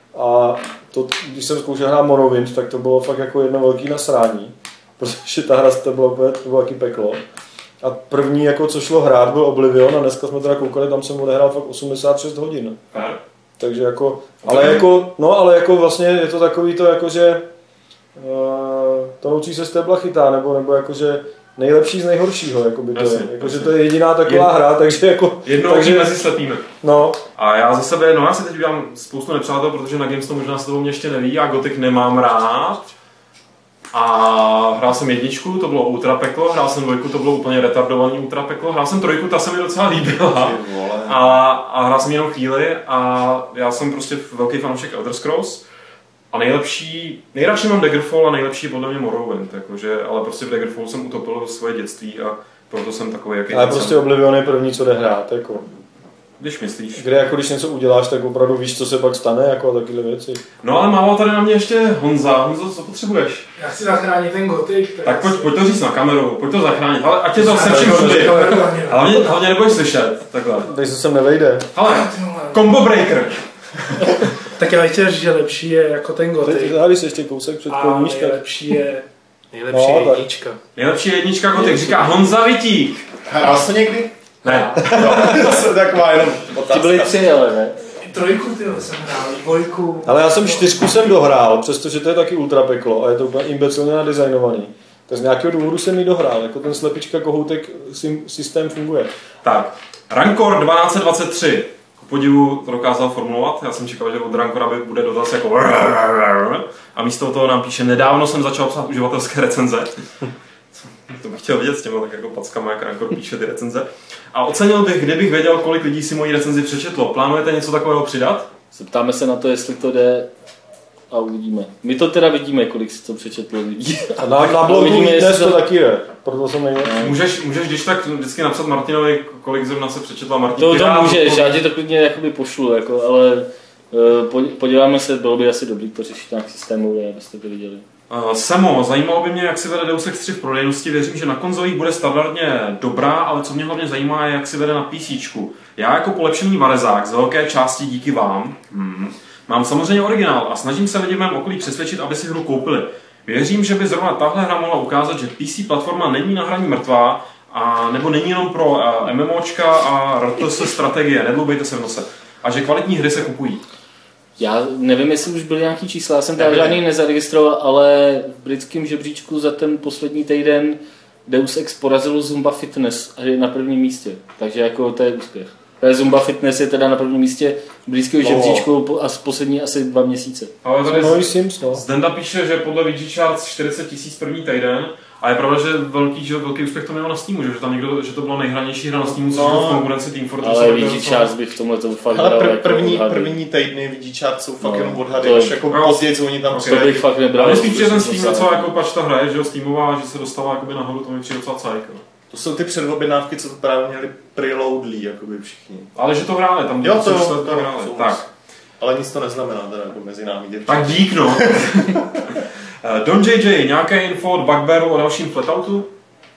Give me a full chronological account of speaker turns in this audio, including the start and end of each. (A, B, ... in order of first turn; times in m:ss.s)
0:00.1-0:07.2 A
0:07.8-0:12.8 A
0:12.9-0:13.2 B
0:13.6-0:17.5 A
0:14.4-0:14.9 B
0:18.2-0:26.2 A
0:22.9-0:24.5 B
0:25.4-0:26.7 B
0:26.8-0:27.2 A
0:27.4-0:32.8 B
0:33.9-0:45.6 B
0:40.3-0:41.4 C
0:46.3-0:54.0 B
0:53.5-0:55.6 A
0:56.4-0:57.0 B
0:57.0-1:00.4 A
1:00.6-1:03.5 B
1:03.6-1:05.5 D
1:05.0-1:10.7 B
1:07.4-1:09.2 D
1:07.7-1:08.6 A
1:10.6-1:11.7 A
1:11.7-1:14.2 B
1:11.8-1:12.7 D
1:14.4-1:16.8 D
1:16.4-1:18.5 A
1:17.7-1:20.6 D
1:19.7-1:20.2 A
1:20.8-1:23.1 B
1:21.6-1:22.3 E
1:23.3-1:24.1 C
1:24.4-1:25.4 B
1:24.4-1:25.0 D
1:24.9-1:27.2 C
1:25.0-1:25.3 A
1:26.7-1:27.8 E
1:28.0-1:30.7 D
1:30.0-1:39.1 A
1:39.4-1:49.9 B
1:51.1-1:58.5 B
1:58.7-2:00.3 E
2:01.1-2:05.6 E
2:04.2-2:07.2 A
2:06.8-2:07.2 E
2:07.0-2:11.6 B
2:10.6-2:17.8 E
2:18.1-2:43.6 B
2:44.4-3:00.5 E
2:46.4-2:46.8 C
2:58.2-2:58.6 C
3:00.6-3:11.3 B
3:00.8-3:01.8 A
3:09.1-3:09.9 C
3:10.4-3:13.4 E
3:12.1-3:18.3 C
3:14.6-3:15.6 E
3:15.7-3:22.0 B
3:16.5-3:18.7 E
3:22.3-3:25.9 C
3:26.0-3:28.2 B
3:26.8-3:28.3 C
3:28.8-3:32.0 C
3:30.7-3:35.9 B